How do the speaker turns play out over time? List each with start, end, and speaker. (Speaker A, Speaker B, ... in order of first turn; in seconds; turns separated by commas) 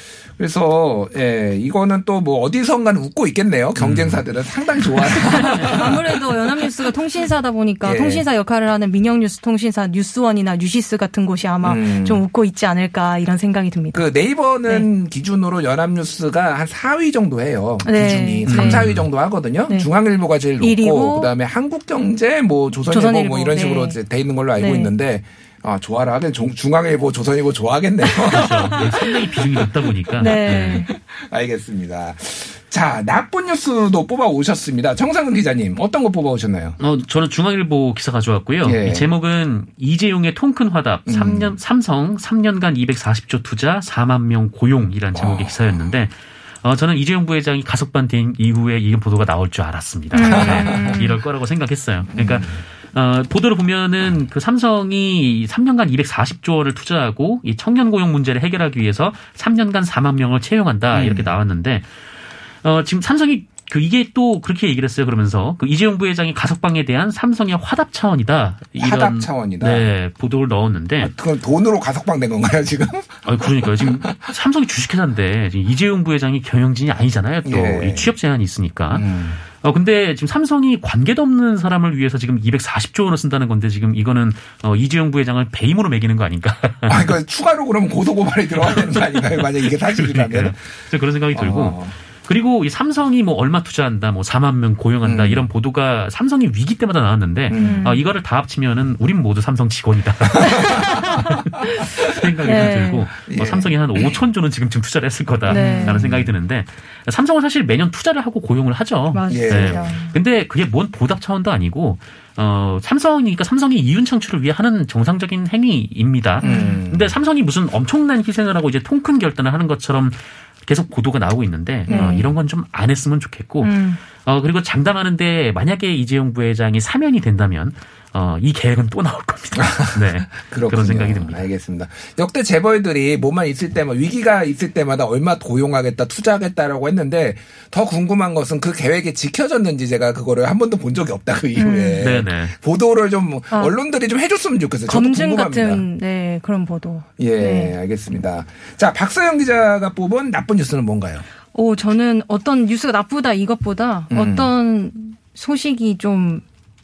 Speaker A: 0.4-6.7, Speaker B: 3.8-4.2, Speaker C: 5.2-14.0, Speaker A: 7.8-8.2, Speaker A: 11.6-12.2, Speaker A: 13.9-28.9, Speaker C: 17.8-18.9, Speaker B: 18.5-19.1, Speaker C: 20.6-21.3, Speaker C: 22.9-24.0, Speaker C: 24.6-24.9, Speaker C: 28.0-29.0, Speaker B: 28.3-30.9, Speaker A: 30.1-36.8, Speaker C: 30.2-30.9, Speaker B: 36.8-61.9, Speaker A: 38.6-39.1, Speaker A: 41.1-41.6, Speaker A: 45.1-45.9, Speaker C: 50.1-51.2, Speaker A: 50.2-51.0, Speaker A: 52.1-52.6, Speaker A: 60.9-61.3, Speaker B: 62.6-71.1, Speaker A: 68.8-69.9, Speaker A: 71.0-74.3, Speaker B: 73.2-87.2, Speaker A: 77.5-78.1, Speaker A: 78.9-79.4, Speaker A: 86.9-90.5, Speaker B: 88.6-131.4, Speaker A: 91.3-92.0, Speaker A: 95.0-95.5, Speaker A: 97.5-97.9, Speaker C: 97.6-98.0, Speaker A: 100.4-101.2, Speaker C: 100.4-101.4, Speaker C: 102.4-103.1, Speaker A: 103.3-104.2, Speaker C: 105.5-106.0, Speaker A: 105.5-106.3, Speaker C: 109.1-110.1, Speaker A: 109.3-109.9, Speaker A: 116.4-117.2, Speaker C: 116.4-116.8, Speaker A: 121.9-122.3, Speaker C: 121.9-122.3, Speaker C: 123.6-124.0, Speaker A: 129.6-145.8, Speaker C: 141.6-142.0, Speaker B: 142.0-142.5, Speaker C: 144.9-147.7, Speaker A: 147.2-151.2, Speaker C: 151.5-156.4, Speaker A: 154.1-154.5